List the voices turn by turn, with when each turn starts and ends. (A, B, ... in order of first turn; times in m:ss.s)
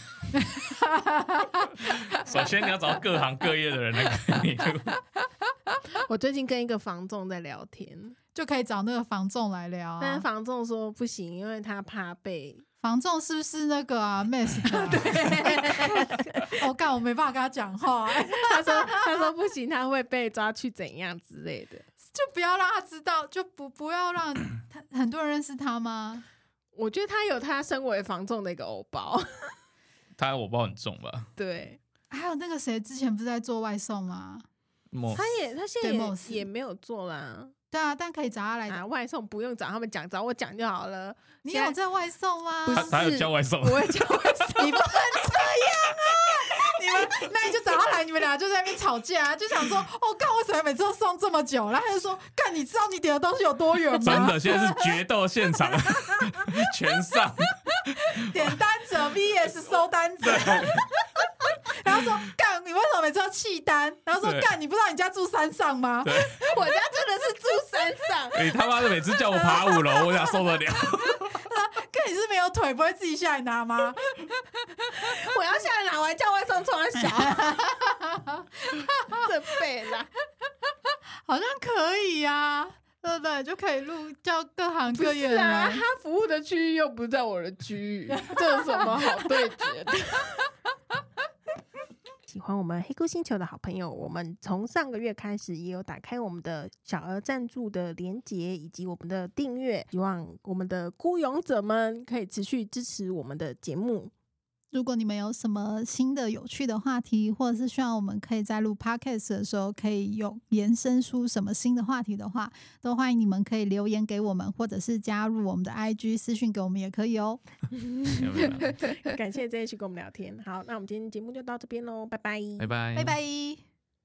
0:00.3-0:02.0 A
0:01.8-0:05.0 B
0:05.9-0:08.2 C
0:08.3-0:10.2 A
0:10.0-0:12.6 C
0:12.8-0:19.3 A
0:14.6-0:16.6 C
0:18.2-0:21.8 C
0:22.0-0:26.2 A
0:26.7-0:29.6 C
0:30.1-0:31.3 B
0:31.4-0:31.8 C
0:32.1-0:34.4 A
0:34.9-0:35.2 B
0:35.1-0:37.5 C
0:35.8-0:36.4 A
0:37.7-0:38.8 A
0:38.7-0:41.8 C
0:41.4-0:43.1 A
0:42.7-0:46.0 C
0:42.7-0:44.2 B
0:44.6-0:55.0 A
0:54.0-0:58.6 B
0:55.6-0:56.6 A
0:58.1-1:06.3 A
1:00.2-1:00.9 B
1:04.2-1:04.5 B
1:06.0-1:06.4 B
1:06.2-1:08.6 C
1:08.3-1:11.4 B
1:09.5-1:10.0 A
1:11.2-1:14.6 A
1:14.9-1:17.7 C
1:17.1-1:19.2 A
1:19.1-1:20.1 C
1:21.2-1:25.8 A
1:24.9-1:30.4 C
1:32.3-1:44.1 C
1:44.7-1:57.4 A
1:57.7-2:02.7 C
1:58.1-1:58.8 B
2:02.6-2:03.2 B
2:02.9-2:03.6 A